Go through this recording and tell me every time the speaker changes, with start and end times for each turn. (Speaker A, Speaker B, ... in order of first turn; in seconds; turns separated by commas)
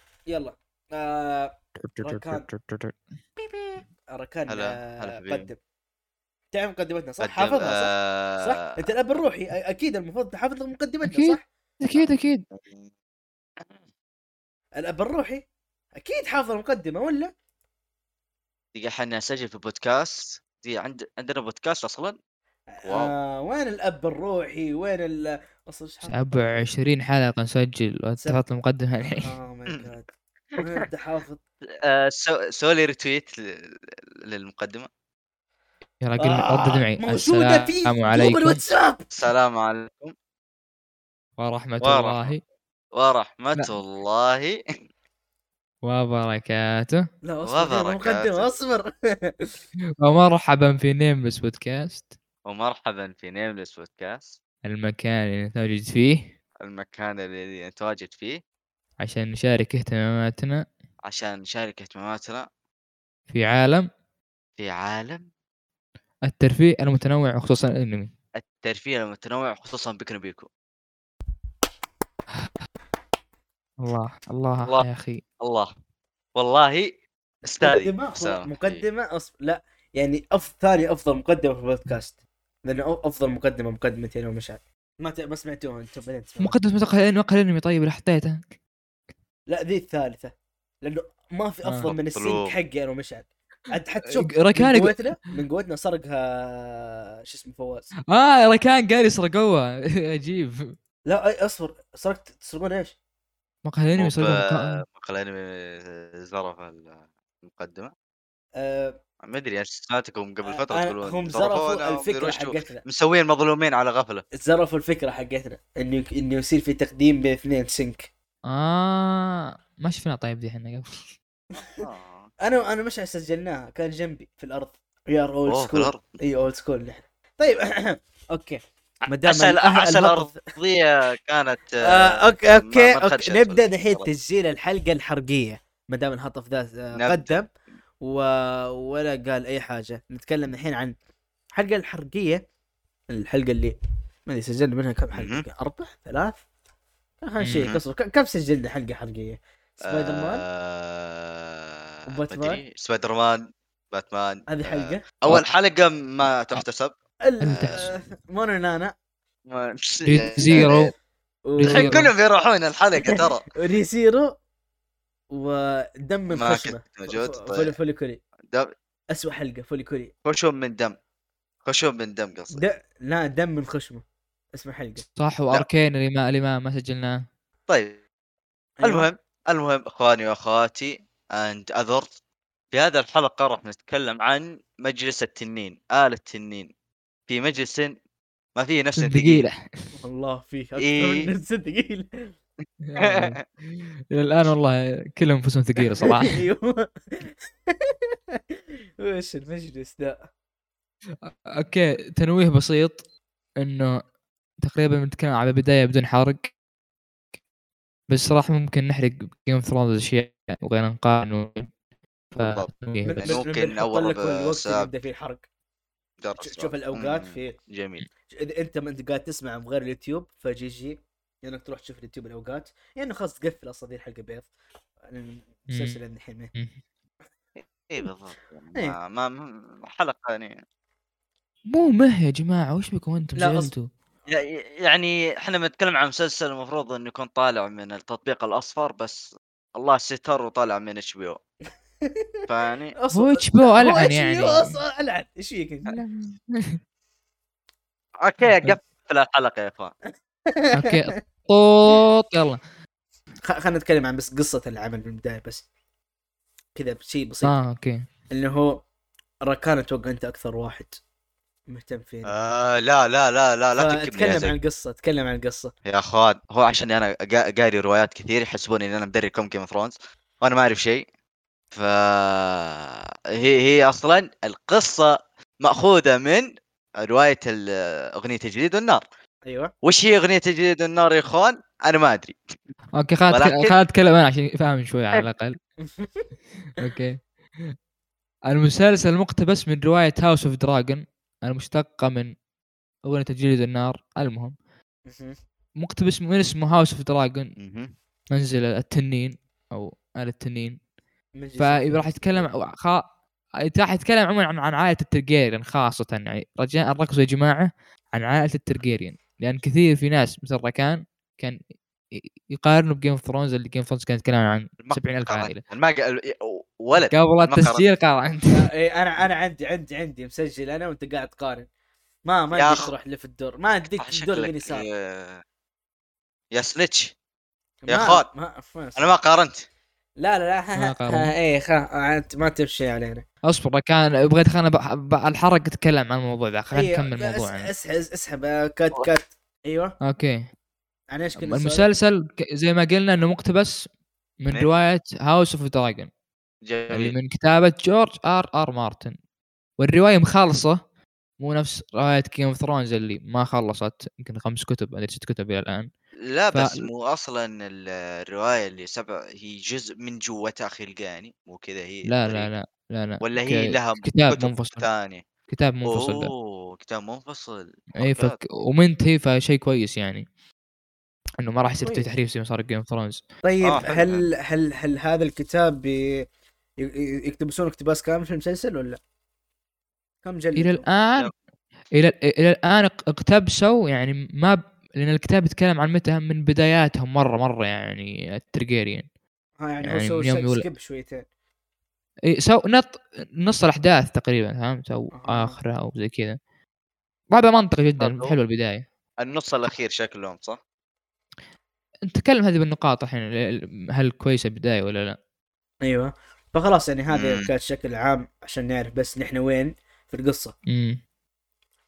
Speaker A: 0.2-2.5, Speaker B: 1.8-3.0, Speaker A: 3.4-5.6, Speaker C: 4.5-5.5, Speaker A: 6.5-11.4, Speaker C: 7.2-8.8, Speaker B: 11.0-12.4, Speaker C: 11.9-12.9, Speaker C: 13.6-13.8, Speaker A: 14.8-15.4, Speaker A: 15.9-17.3, Speaker C: 18.7-22.2, Speaker A: 22.7-26.7, Speaker C: 22.9-23.1, Speaker B: 26.1-29.3, Speaker A: 29.2-31.4, Speaker C: 31.8-34.9, Speaker B: 36.0-38.6, Speaker A: 36.2-39.0, Speaker C: 39.1-40.1, Speaker B: 41.4-42.4, Speaker C: 41.8-42.3, Speaker C: 42.9-44.6, Speaker B: 45.8-47.1, Speaker A: 47.2-49.5, Speaker C: 47.4-48.5, Speaker B: 50.0-52.1, Speaker C: 52.5-54.4, Speaker B: 54.6-56.3, Speaker C: 56.6-58.4, Speaker B: 59.0-60.6, Speaker C: 61.0-62.5, Speaker B: 63.3-63.9, Speaker C: 64.6-65.2, Speaker B: 66.2-68.1, Speaker C: 68.3-70.5, Speaker B: 73.8-75.2, Speaker C: 75.4-75.7, Speaker C: 76.3-78.8, Speaker A: 77.6-86.5, Speaker B: 86.4-88.5, Speaker A: 89.5-97.9, Speaker B: 91.7-91.9, Speaker C: 91.9-92.5, Speaker B: 94.1-95.0, Speaker B: 98.1-100.8, Speaker A: 101.0-103.0, Speaker B: 103.6-104.8, Speaker C: 104.0-107.9, Speaker A: 108.5-109.0, Speaker C: 109.2-114.2, Speaker A: 110.5-112.8, Speaker A: 114.3-118.1, Speaker B: 118.5-121.1, Speaker A: 121.5-121.8, Speaker C: 121.8-122.3, Speaker A: 122.4-130.5, Speaker C: 125.5-126.2, Speaker C: 129.1-134.1, Speaker A: 131.8-137.5, Speaker C: 136.9-137.4, Speaker A: 138.0-140.9, Speaker A: 141.5-142.4, Speaker A: 143.1-146.4, Speaker C: 145.1-145.4, Speaker A: 147.2-150.4, Speaker C: 147.4-147.8, Speaker C: 149.8-156.9, Speaker A: 152.1-152.6, Speaker A: 154.5-155.2, Speaker A: 157.2-158.9, Speaker B: 157.4-157.9, Speaker C: 157.5-158.0, Speaker C: 159.5-160.8, Speaker B: 160.0-160.9, Speaker A: 160.4-160.9, Speaker A: 161.5-162.1, Speaker B: 161.6-162.1, Speaker C: 161.7-163.5, Speaker A: 163.0-164.3, Speaker A: 165.3-168.2, Speaker C: 166.3-167.7, Speaker A: 169.1-170.1, Speaker C: 170.2-170.9, Speaker C: 171.6-172.6, Speaker A: 172.5-175.0, Speaker B: 175.2-177.2, Speaker C: 177.7-178.0, Speaker A: 178.8-179.1, Speaker C: 178.8-182.1, Speaker C: 182.7-186.7, Speaker C: 187.3-187.9, Speaker C: 188.6-189.4, Speaker B: 189.0-189.9, Speaker A: 189.9-192.3, Speaker C: 190.8-191.3, Speaker B: 192.8-196.4, Speaker C: 193.0-193.4, Speaker A: 196.0-200.3, Speaker B: 201.2-203.0, Speaker B: 203.6-204.0, Speaker B: 204.6-206.5, Speaker B: 208.1-211.7, Speaker B: 212.3-213.3, Speaker C: 212.4-214.9, Speaker A: 213.1-215.4, Speaker C: 216.2-218.0, Speaker A: 216.4-217.6, Speaker A: 218.3-224.5, Speaker A: 225.1-226.5, Speaker B: 225.7-226.0, Speaker C: 227.9-230.6, Speaker B: 231.7-233.9, Speaker A: 233.4-233.7, Speaker C: 234.3-241.4, Speaker C: 242.5-242.9, Speaker A: 243.0-245.9, Speaker B: 243.1-244.8, Speaker B: 245.9-246.8, Speaker C: 248.2-249.9, Speaker A: 250.5-251.2, Speaker B: 250.7-252.6, Speaker A: 253.4-255.6, Speaker A: 256.8-257.6, Speaker B: 257.4-258.1, Speaker A: 258.3-258.8, Speaker A: 259.4-261.0, Speaker A: 261.7-262.3, Speaker C: 262.2-264.6, Speaker A: 263.8-265.7, Speaker C: 265.9-271.1, Speaker C: 271.7-279.0, Speaker A: 279.4-279.7, Speaker C: 279.8-282.4, Speaker B: 282.9-285.6, Speaker C: 283.3-283.8, Speaker A: 285.8-286.3, Speaker B: 286.8-287.7, Speaker B: 288.5-292.3, Speaker B: 293.1-294.5, Speaker A: 295.1-295.4, Speaker B: 295.8-297.5, Speaker C: 297.6-297.9, Speaker B: 298.3-300.8, Speaker A: 301.4-302.5, Speaker B: 301.6-303.0, Speaker B: 303.6-311.6, Speaker B: 312.1-315.6, Speaker C: 314.8-317.8, Speaker B: 317.1-318.7, Speaker A: 318.5-321.7, Speaker A: 322.2-324.9, Speaker C: 322.5-322.9, Speaker C: 324.0-325.4, Speaker C: 326.5-327.1, Speaker A: 327.8-329.0, Speaker C: 327.9-328.3, Speaker C: 328.9-329.6, Speaker A: 330.2-333.2, Speaker B: 330.8-331.3, Speaker B: 333.4-337.7, Speaker A: 336.7-339.9, Speaker B: 340.0-340.5, Speaker A: 341.1-341.9, Speaker B: 341.4-343.9, Speaker B: 344.4-346.1, Speaker C: 346.6-347.1, Speaker B: 346.9-349.1, Speaker B: 349.8-350.8, Speaker B: 351.4-355.9, Speaker C: 356.2-362.5, Speaker B: 356.5-356.9, Speaker B: 362.1-364.9, Speaker C: 363.2-365.2, Speaker B: 365.5-366.3, Speaker C: 365.9-368.4, Speaker B: 367.9-370.2, Speaker B: 371.4-373.2, Speaker A: 373.4-376.2, Speaker C: 373.6-374.2, Speaker A: 376.8-379.0, Speaker A: 380.2-380.9, Speaker B: 380.6-381.3, Speaker B: 381.9-389.1, Speaker A: 389.6-391.2, Speaker B: 389.8-390.6, Speaker B: 392.3-396.4, Speaker A: 395.1-395.6, Speaker B: 397.3-398.9, Speaker C: 398.0-398.4, Speaker C: 399.2-400.6, Speaker B: 402.1-405.2, Speaker A: 405.8-410.6, Speaker C: 407.1-407.5, Speaker B: 410.7-411.0